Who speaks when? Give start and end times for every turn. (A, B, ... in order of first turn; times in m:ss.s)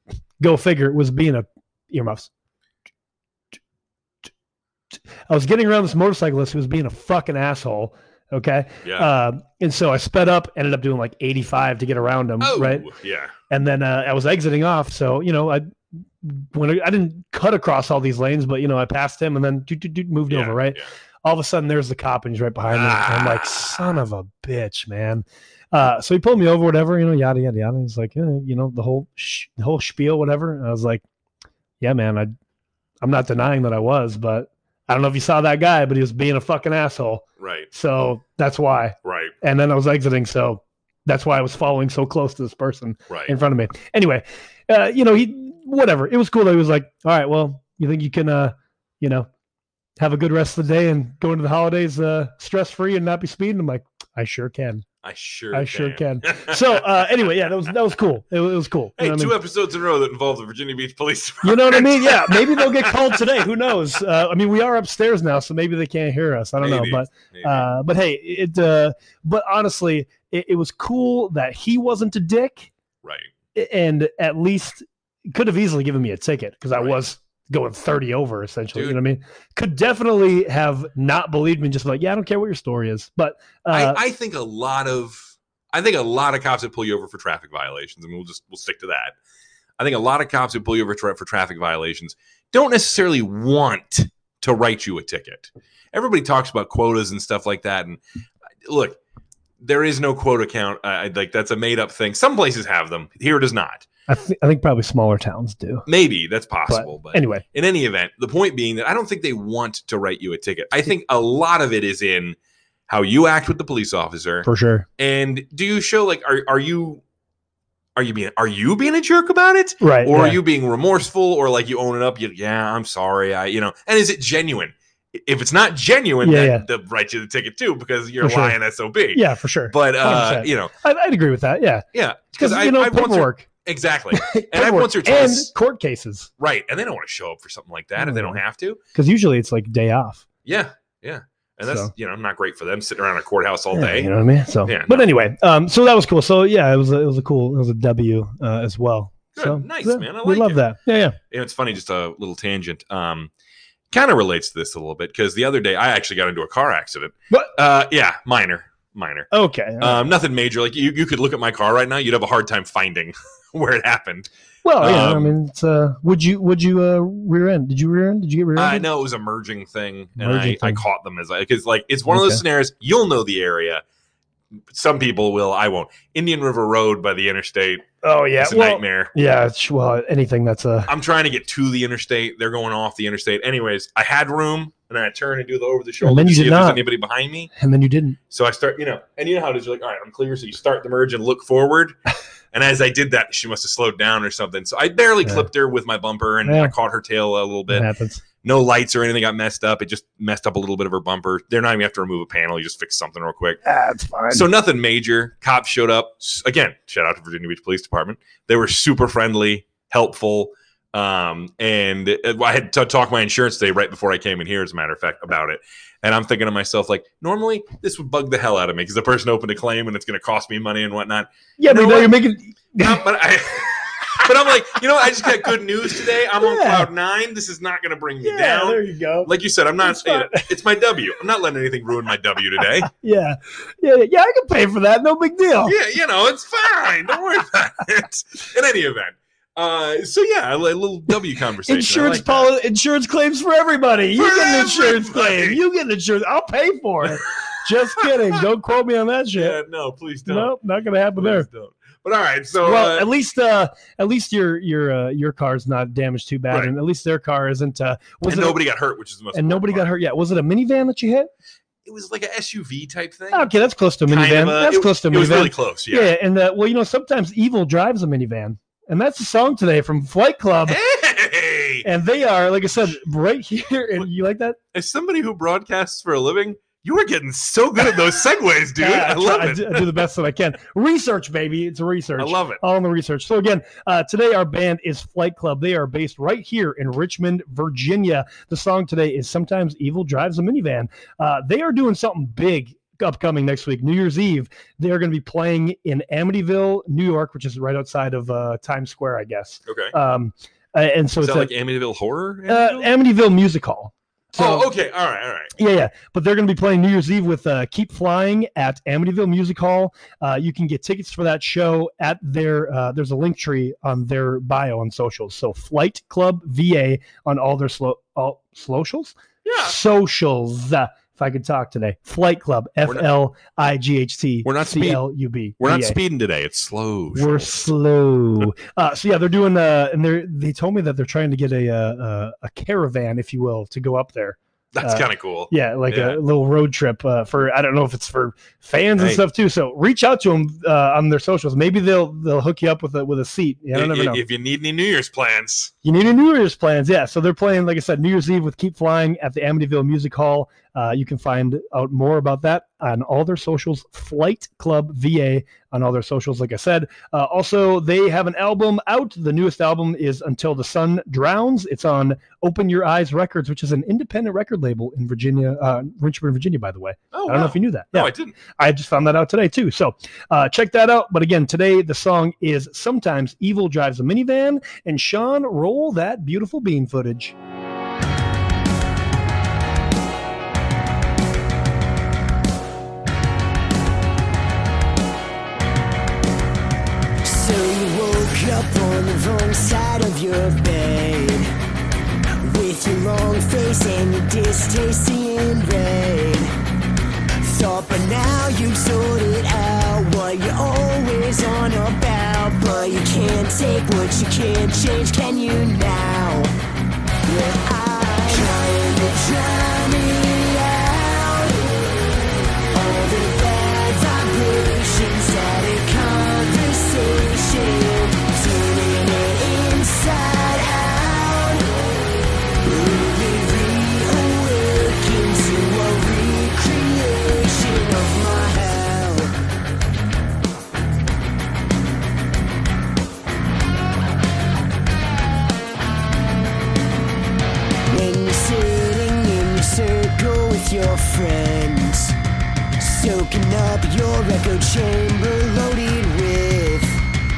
0:00.4-0:02.3 A
0:05.3-0:12.9 A
0:08.8-0:09.1 B
0:12.4-0:13.3 B
0:13.5-0:31.0 A
0:20.3-0:20.8 B
0:22.7-0:24.0 B
0:31.8-0:32.3 A
0:33.0-0:49.3 A
0:37.4-0:37.7 B
0:39.0-0:39.3 B
0:50.0-0:54.8 A
0:55.0-0:56.8 B
0:55.5-0:59.4 A
0:59.0-1:03.4 B
1:01.4-1:12.7 A
1:06.6-1:07.7 B
1:13.0-1:13.3 B
1:13.5-1:24.0 A
1:23.7-1:29.2 B
1:29.8-1:38.0 B
1:38.6-1:39.0 B
1:39.6-1:43.8 B
1:44.1-1:45.8 A
1:45.8-1:52.4 B
1:46.7-1:47.4 A
1:52.9-1:54.4 B
1:54.4-1:54.8 A
1:55.0-1:57.0 B
1:58.0-2:10.7 B
1:59.8-2:00.4 A
2:06.2-2:06.6 A
2:08.2-2:08.6 A
2:09.1-2:11.9 A
2:11.9-2:15.5 B
2:12.4-2:13.5 A
2:14.1-2:16.3 A
2:16.4-2:18.8 B
2:18.0-2:18.4 A
2:18.9-2:20.2 A
2:20.4-2:24.1 B
2:21.6-2:21.9 A
2:23.7-2:31.2 A
2:24.6-2:25.1 B
2:29.3-2:30.6 B
2:31.3-2:33.3 B
2:33.9-2:39.3 B
2:39.3-2:40.0 A
2:39.8-2:45.3 B
2:44.6-2:48.8 A
2:48.5-2:53.8 B
2:50.2-2:50.8 A
2:52.1-2:52.4 A
2:54.7-2:57.9 B
2:58.0-3:00.9 A
2:58.4-2:59.1 B
3:00.9-3:07.5 B
3:06.0-3:06.8 A
3:07.5-3:08.2 A
3:08.3-3:11.9 B
3:12.5-3:17.9 B
3:16.4-3:16.7 A
3:17.7-3:18.2 A
3:18.4-3:23.6 B
3:23.6-3:24.5 A
3:24.3-3:42.2 B
3:41.6-3:43.0 A
3:42.8-3:52.9 B
3:46.4-3:46.9 A
3:48.2-3:49.3 A
3:49.8-3:50.5 A
3:52.8-3:55.7 A
3:55.6-4:02.5 B
4:01.6-4:09.6 A
4:04.1-4:05.6 B
4:09.3-4:10.5 B
4:10.2-4:11.5 A
4:11.2-4:13.1 B
4:12.6-4:18.6 A
4:18.2-4:19.9 B
4:19.3-4:21.3 A
4:21.8-4:23.5 B
4:23.3-4:30.8 A
4:24.1-4:26.1 B
4:30.7-4:31.8 B
4:31.8-4:34.6 A
4:34.7-4:40.0 B
4:38.8-5:01.5 A
4:42.2-4:42.6 B
4:59.6-4:59.9 B
5:01.2-5:02.9 B
5:02.5-5:04.7 A
5:04.4-5:05.5 B
5:05.6-5:26.0 A
5:19.4-5:19.7 B
5:24.4-5:25.0 B
5:25.6-5:27.6 B
5:27.1-5:44.2 A
5:34.7-5:36.2 B
5:39.0-5:39.2 B
5:43.7-5:45.7 B
5:45.8-6:17.3 A
6:07.1-6:08.4 B
6:27.2-6:31.5 C
6:32.4-6:36.5 C
6:37.4-6:46.5 C
6:47.2-6:51.7 C
6:52.7-7:01.7 C
7:02.6-7:09.4 C
7:17.9-7:22.2 C
7:22.8-7:27.0 C